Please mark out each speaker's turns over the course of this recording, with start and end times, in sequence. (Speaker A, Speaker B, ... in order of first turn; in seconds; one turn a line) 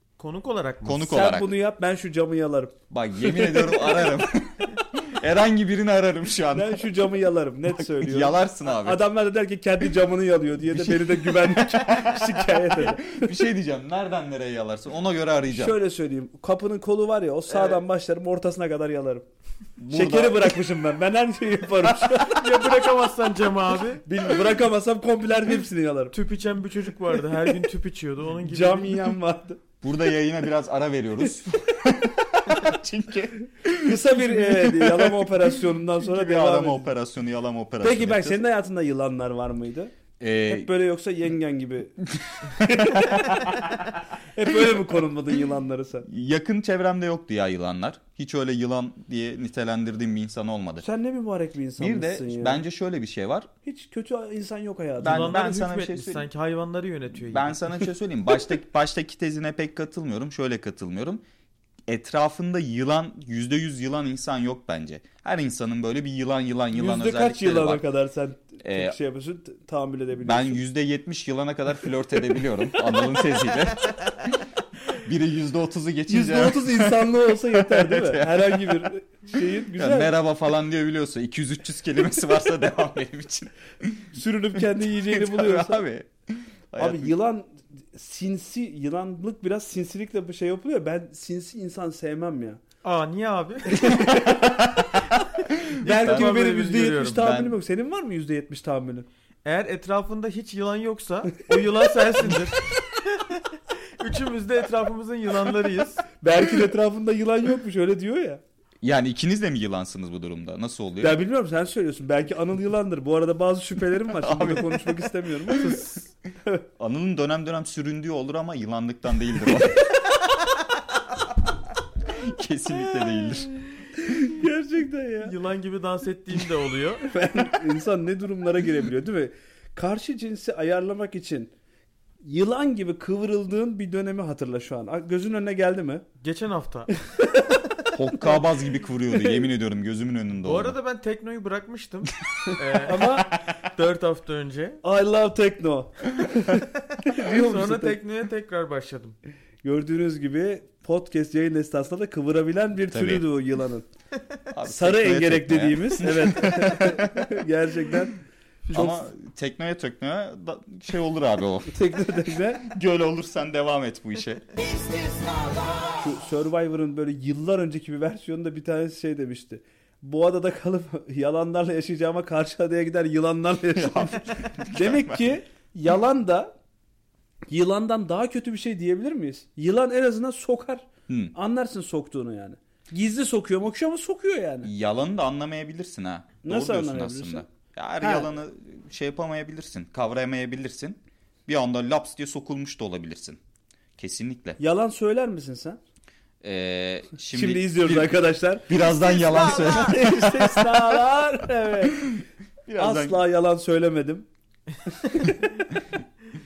Speaker A: 0.2-1.1
Speaker B: 0.8-1.5
Speaker C: 1.1-4.1
Speaker B: 2.9-6.8
Speaker C: 6.5-13.3
Speaker B: 7.8-9.0
Speaker B: 10.7-15.8
Speaker C: 15.5-19.2
Speaker B: 19.8-20.6
Speaker C: 19.9-22.9
Speaker A: 22.1-24.1
Speaker C: 24.0-26.1
Speaker A: 26.1-29.1
Speaker C: 28.4-29.6
Speaker B: 29.8-38.4
Speaker C: 33.8-37.0
Speaker C: 37.8-39.9
Speaker B: 40.2-40.7
Speaker C: 40.5-42.0
Speaker B: 42.2-43.8
Speaker C: 42.5-43.6
Speaker C: 44.3-46.1
Speaker B: 46.1-50.8
Speaker C: 50.8-52.6
Speaker B: 51.8-53.5
Speaker C: 53.6-55.3
Speaker B: 55.0-56.2
Speaker A: 55.0-57.6
Speaker B: 57.2-61.2
Speaker B: 61.9-67.8
Speaker C: 66.7-70.6
Speaker B: 68.6-68.9
Speaker B: 70.2-78.8
Speaker C: 72.7-73.4
Speaker C: 76.1-80.1
Speaker B: 79.7-84.1
Speaker C: 84.1-85.8
Speaker B: 84.9-87.1
Speaker C: 86.8-92.6
Speaker A: 92.8-93.9
Speaker C: 93.7-94.5
Speaker B: 94.1-94.9
Speaker B: 95.5-96.3
Speaker A: 95.8-97.3
Speaker C: 95.8-99.1
Speaker B: 97.1-97.5
Speaker A: 99.4-103.5
Speaker A: 104.0-106.0
Speaker C: 106.2-108.4
Speaker B: 108.8-111.2
Speaker C: 111.0-116.6
Speaker B: 114.2-115.8
Speaker B: 116.8-119.9
Speaker C: 119.5-119.9
Speaker B: 122.1-123.6
Speaker C: 123.9-125.3
Speaker A: 125.2-127.1
Speaker C: 127.0-131.5
Speaker C: 132.2-136.1
Speaker A: 136.2-136.9
Speaker C: 137.1-137.6
Speaker B: 137.9-140.7
Speaker C: 139.1-139.4
Speaker A: 140.4-144.8
Speaker C: 142.7-143.3
Speaker C: 144.8-148.0
Speaker A: 147.1-149.2
Speaker C: 149.6-153.9
Speaker B: 152.9-153.2
Speaker B: 154.5-157.3
Speaker C: 154.7-159.1
Speaker B: 158.7-161.7
Speaker C: 161.7-162.7
Speaker B: 162.6-164.5
Speaker C: 165.0-176.6
Speaker B: 173.8-175.3
Speaker C: 177.5-184.7
Speaker B: 181.1-181.3
Speaker B: 184.6-193.4
Speaker C: 186.4-187.4
Speaker C: 188.0-188.3
Speaker B: 194.0-194.6
Speaker C: 194.6-195.8
Speaker B: 196.4-201.0
Speaker C: 197.3-202.2
Speaker B: 202.7-203.2
Speaker C: 202.8-204.3
Speaker C: 204.8-205.7